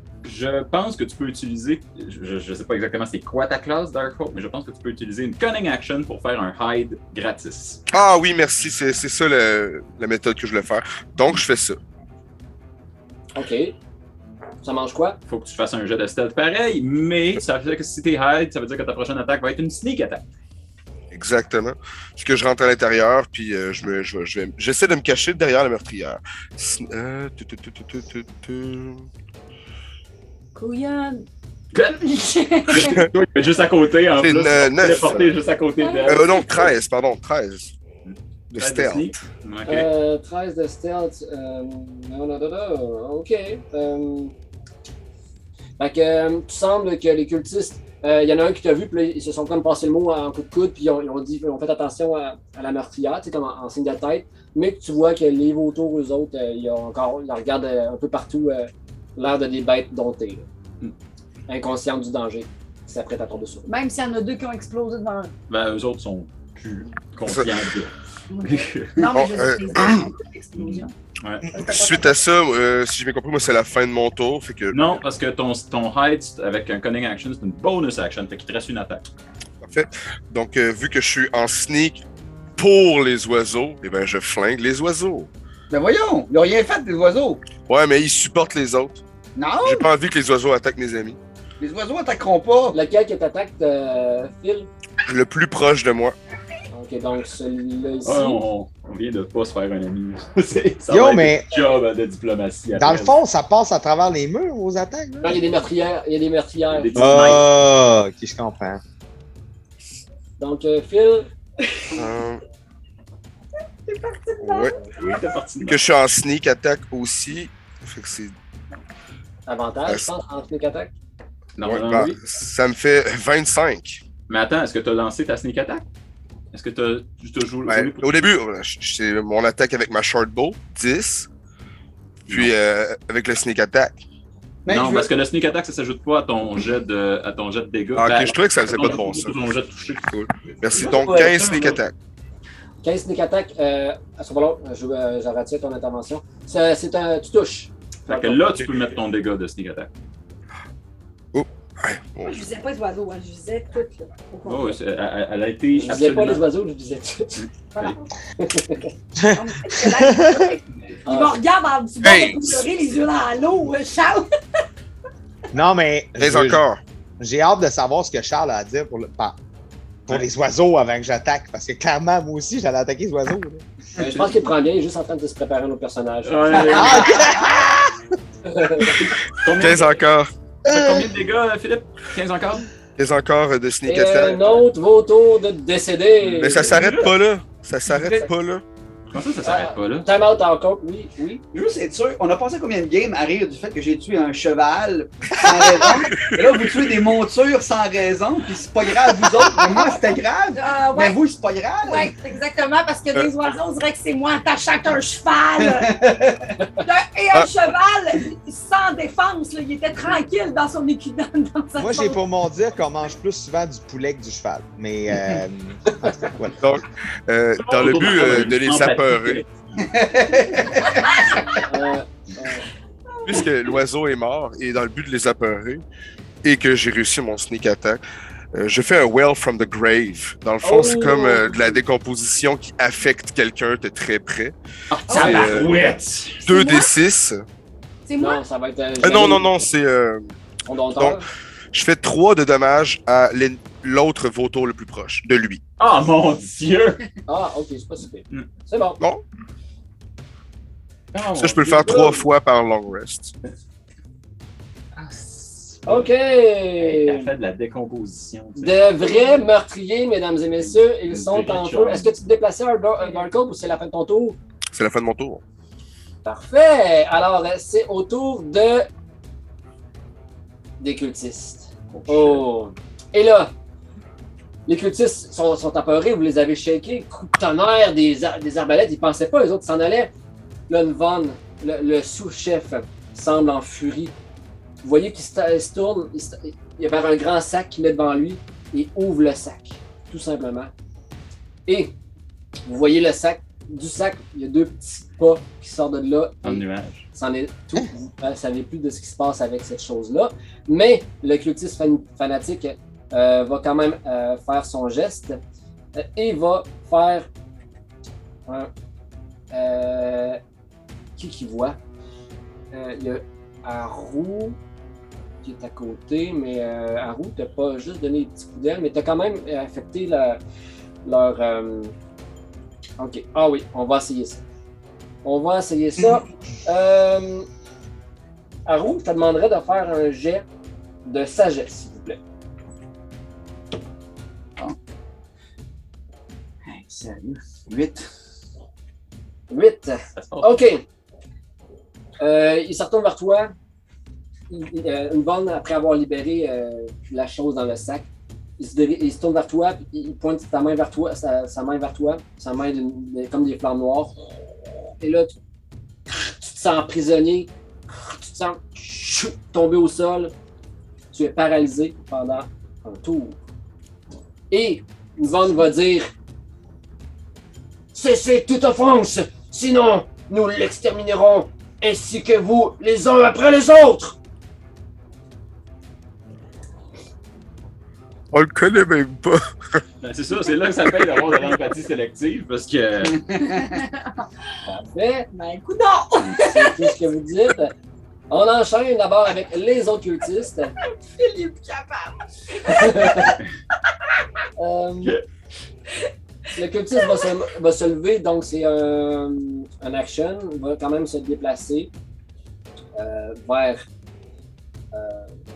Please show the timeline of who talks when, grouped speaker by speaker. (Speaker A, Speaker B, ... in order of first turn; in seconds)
Speaker A: 0.2-7.8, 15.3-20.2, 31.7-32.0, 32.7-36.3, 38.1-39.9, 65.5-69.0, 70.6-71.5, 74.7-79.0, 98.0-103.2, 106.7-107.5, 115.0-115.8, 121.6-122.2, 124.3-125.8, 126.5-128.3, 134.7-140.1, 148.1-149.9, 154.4-156.4, 157.4-158.0, 176.2-177.3, 179.0-180.0, 180.7-182.7, 186.3-187.1, 189.1-190.1, 217.6-219.5, 234.9-236.4, 245.8-247.0, 251.1-252.3, 254.9-256.1, 256.8-259.2, 260.6-262.1, 271.9-272.5, 296.4-297.1, 340.1-340.6, 380.0-383.2
Speaker B: 7.9-11.8, 21.1-29.1, 32.8-33.1, 34.2-35.4, 36.1-37.7, 38.5-39.2, 67.3-67.5, 69.1-70.1, 71.6-75.0, 79.6-82.0, 82.6-85.3, 87.7-89.0, 89.6-91.2, 95.1-96.2, 112.0-112.4, 114.4-114.8, 115.7-118.3, 119.9-120.1, 121.6-124.0, 127.7-131.3, 132.3-133.9, 138.0-139.4, 140.1-141.9, 151.3-152.4, 162.0-162.7, 166.2-166.8, 179.6-180.3, 183.0-184.7, 186.3-188.6, 196.1-196.4, 216.6-219.4, 223.3-225.8, 226.4-228.0, 228.5-234.5, 235.1-235.7, 236.4-237.4, 239.0-240.3, 241.0-245.6, 251.3-253.3, 264.7-265.4, 378.3-379.8
Speaker C: 13.3-13.8, 14.6-15.2, 39.7-44.3, 45.8-60.5, 61.5-63.7, 92.7-94.7, 96.7-98.4, 105.2-107.1, 110.4-111.3, 119.5-120.9, 142.8-148.6, 155.8-157.4, 158.4-158.9, 161.1-161.4, 174.0-177.2, 178.5-178.9, 183.9-186.8, 189.4-191.4, 221.7-222.7, 230.6-231.8, 238.2-239.5, 240.7-241.3, 247.3-249.0, 255.9-257.3, 258.6-264.4, 266.2-268.9, 270.8-273.5, 274.7-280.1, 280.7-284.1, 284.8-290.7, 291.7-291.9, 292.7-305.4, 305.9-307.3, 309.5-310.4, 311.2-311.8, 312.7-314.6, 315.4-320.4, 321.0-321.9, 323.0-324.4, 325.2-327.5, 328.7-330.4, 331.1-332.2, 339.5-340.9, 342.2-343.5, 344.5-348.1, 348.6-354.4, 355.0-355.3, 356.1-360.3, 361.1-363.4, 364.5-366.1, 367.9-374.2, 384.6-385.3, 386.3-387.7, 388.3-390.8, 392.7-393.4, 394.6-395.2, 396.6-401.9, 403.0-403.8, 404.9-405.4
Speaker D: 30.6-31.2, 31.9-33.1, 35.8-36.7, 63.7-65.3, 68.3-70.9, 71.5-72.1, 113.9-115.1, 152.2-154.8, 157.7-158.1, 159.2-164.3, 200.6-201.2, 201.8-206.1, 206.8-212.2, 221.1-221.4, 235.1-235.6, 236.5-236.9, 238.1-238.4, 383.4-384.0, 385.3-386.9, 390.9-393.4, 397.0-397.3
Speaker E: 85.7-87.4, 89.4-89.9, 91.6-92.8, 134.7-135.1, 140.7-141.8, 176.7-177.0, 191.5-202.1, 205.6-206.5, 219.8-221.5, 336.6-338.1
Speaker F: 100.9-101.6, 102.7-105.4, 107.0-108.8, 159.2-160.5, 165.5-166.6, 167.2-169.4, 170.1-173.6, 176.8-177.9, 180.7-181.0, 211.8-216.6